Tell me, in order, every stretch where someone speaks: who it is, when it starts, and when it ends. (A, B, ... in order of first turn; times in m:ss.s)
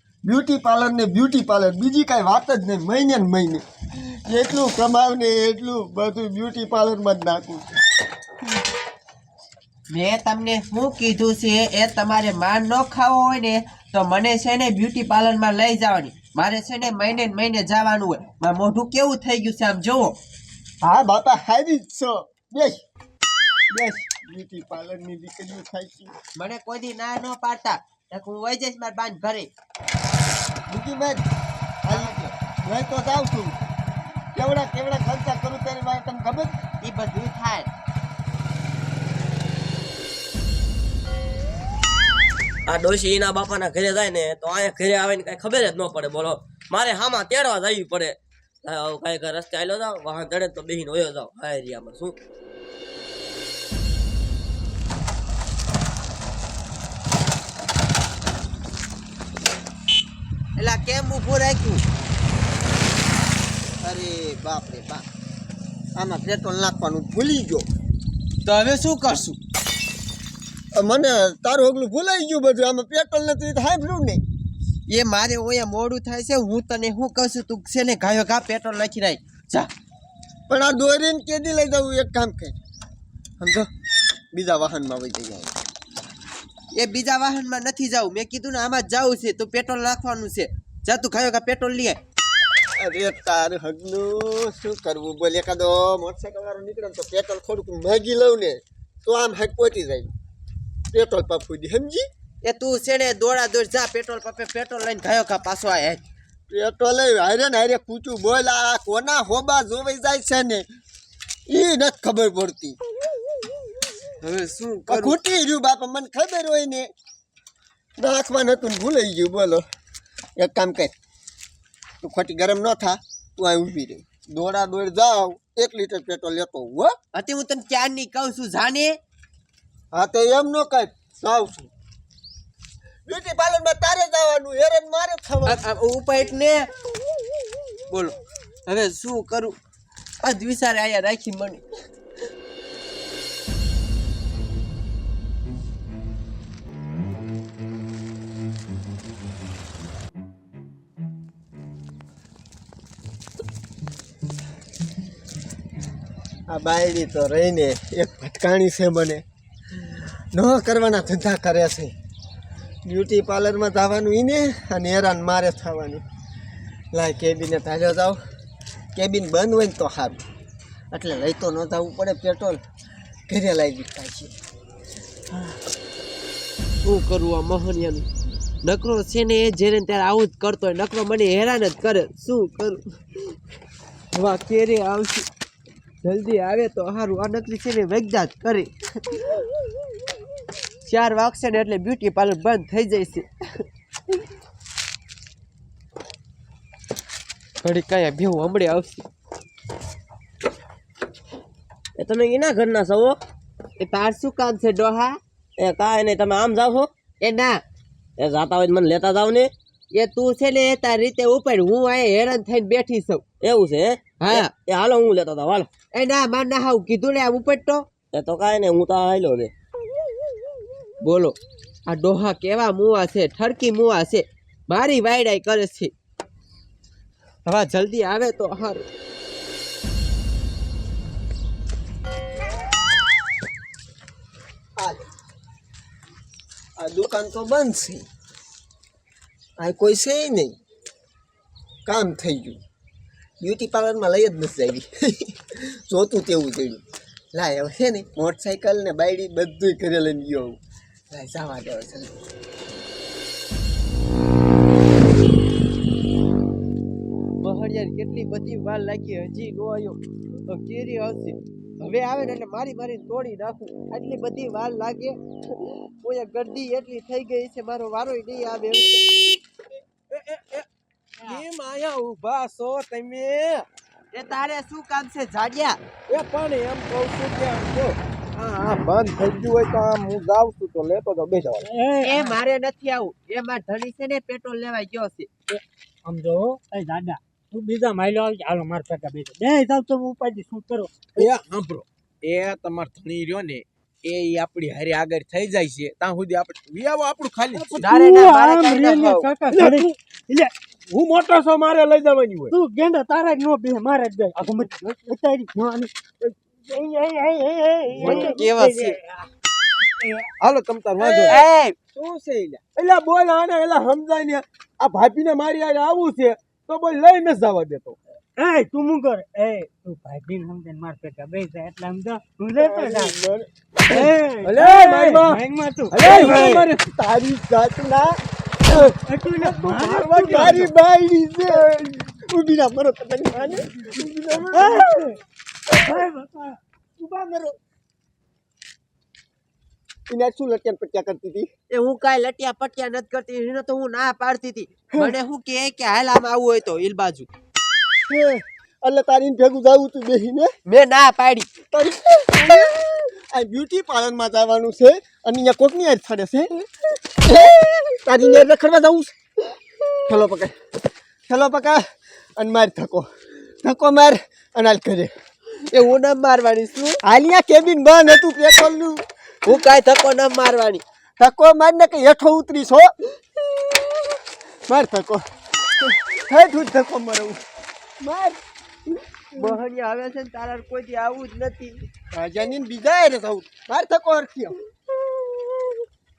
0:00.2-0:03.6 A
0:04.2-0:07.6 A
0:09.9-0:20.2 B
0:20.8-0:22.8 A
0:23.7-0:26.1 A
0:26.4-0:29.5 B
0:30.7-0:31.2 A
0:31.8-0:33.6 A
0:31.9-0:32.2 B
0:34.3-0:36.5 A
0:36.8-0:37.7 B
0:42.7-0:52.2 C
1:00.6-1:01.8 B
1:03.8-1:05.0 A
1:06.0-1:07.6 A
1:08.4-1:09.4 B
1:10.7-1:14.2 A
1:14.9-1:19.7 B
1:20.5-1:22.5 A
1:23.4-1:23.7 A
1:24.3-1:25.5 A
1:26.8-1:32.0 B
1:32.8-1:40.1 A
1:40.9-1:42.0 A
1:42.4-1:46.0 B
1:46.5-1:50.6 A
1:51.5-1:52.8 A
1:54.2-1:55.2 B
1:54.8-1:56.9 A
1:58.0-1:59.6 A
2:00.4-2:00.9 A
2:02.0-2:06.9 A
2:07.1-2:09.0 B
2:09.9-2:11.7 A
2:13.0-2:15.6 A
2:15.4-2:16.7 B
2:17.9-2:19.6 B
2:20.2-2:21.6 B
2:36.5-2:39.2 A
2:40.3-2:41.9 A
2:42.8-2:46.0 A
2:46.9-2:48.2 A
2:48.9-2:50.2 A
2:50.9-2:52.6 A
2:53.3-2:54.3 A
2:56.8-2:58.1 B
2:58.6-3:02.8 B
3:04.1-3:05.3 B
3:06.0-3:09.4 B
3:10.8-3:13.3 B
3:17.6-3:19.0 B
3:22.0-3:23.2 C
3:23.8-3:25.2 B
3:25.6-3:26.9 C
3:27.2-3:27.6 B
3:28.2-3:29.5 C
3:29.9-3:33.2 B
3:33.4-3:35.7 C
3:34.2-3:34.5 B
3:35.9-3:37.9 B
3:38.1-3:39.5 C
3:41.0-3:45.9 B
3:47.4-3:48.9 B
3:54.8-3:55.1 A
3:56.8-3:58.0 A
3:59.6-4:00.5 A
4:01.8-4:02.6 A
4:03.4-4:06.8 A
4:07.3-4:10.6 A
4:11.1-4:12.1 A
4:17.4-4:29.1 B
4:30.1-4:30.7 D
4:31.2-4:33.7 D
4:34.1-4:35.8 B
4:36.1-4:41.7 D
4:41.6-4:42.3 E
4:42.0-4:45.3 B
4:45.5-4:51.3 E
4:51.2-4:57.9 D
4:57.5-5:00.5 E
4:57.8-4:59.3 B
4:59.5-4:59.9 D
5:00.9-5:02.5 D
5:02.5-5:09.2 E
5:08.0-5:09.0 B
5:08.0-5:08.4 D
5:10.0-5:10.2 E
5:10.4-5:11.4 D
5:11.2-5:11.8 B
5:12.0-5:18.0 D
5:18.4-5:23.2 E
5:22.6-5:23.5 A
5:23.9-5:26.7 E
5:23.9-5:26.8 D
5:26.0-5:28.2 A
5:28.7-5:29.0 D
5:29.0-5:30.6 E
5:29.6-5:30.7 D
5:30.2-5:35.0 A
5:34.5-5:35.1 E
5:35.9-5:36.5 E
5:37.0-5:37.5 A
5:40.1-5:41.5 A
5:41.7-5:47.3 B
5:48.1-5:50.5 A
5:50.7-5:51.5 B
5:51.7-5:59.1 A
6:00.0-6:00.5 A
6:01.3-6:01.8 A
6:02.4-6:03.1 A
6:03.6-6:05.1 A
6:05.7-6:07.0 B
6:07.0-6:09.0 A
6:09.4-6:10.8 B
6:11.2-6:14.1 A
6:14.7-6:15.2 A
6:15.8-6:17.4 A
6:18.0-6:19.6 A
6:19.4-6:21.8 B
6:22.1-6:24.5 A
6:25.1-6:25.7 A